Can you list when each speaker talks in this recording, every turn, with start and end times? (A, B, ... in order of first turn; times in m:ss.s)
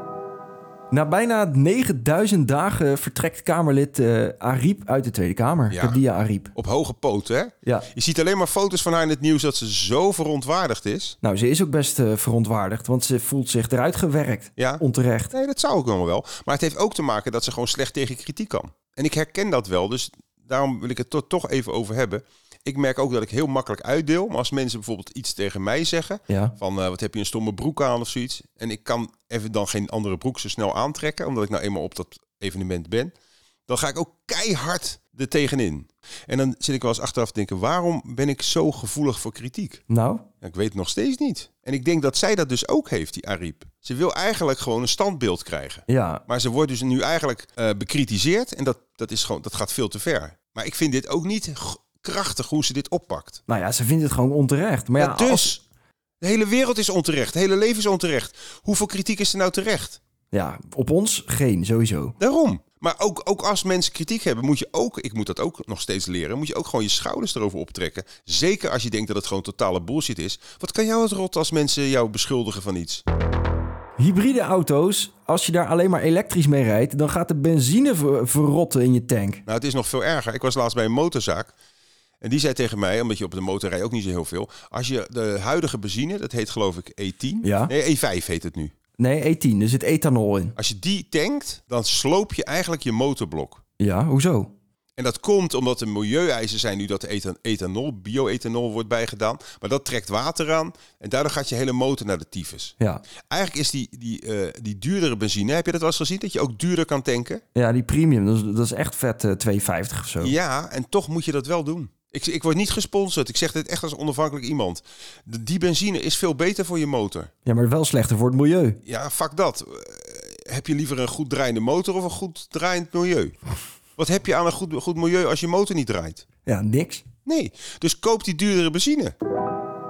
0:00.9-0:06.5 A
0:05.7-0:06.0 B
0:06.5-0:11.2 B
0:11.2-0:15.3 A
0:14.6-0:33.1 B
0:26.3-0:26.5 A
0:33.7-0:39.8 B
0:39.9-0:40.2 A
0:40.4-0:53.4 B
0:45.9-0:46.2 A
0:53.5-0:55.5 A
0:55.0-0:55.6 B
0:56.2-1:00.0 B
1:00.3-1:02.2 A
1:02.2-1:13.0 B
1:14.0-1:19.4 A
1:19.5-1:21.5 B
1:22.2-1:28.7 B
1:27.4-1:27.7 A
1:29.0-1:30.5 A
1:30.6-1:33.6 B
1:33.8-1:34.5 A
1:35.0-1:42.8 B
1:43.3-1:47.4 B
1:47.6-1:50.3 A
1:50.2-1:57.3 B
1:57.4-1:58.8 A
1:58.9-2:03.4 B
2:04.0-2:06.3 B
2:06.5-2:07.0 A
2:07.3-2:09.2 B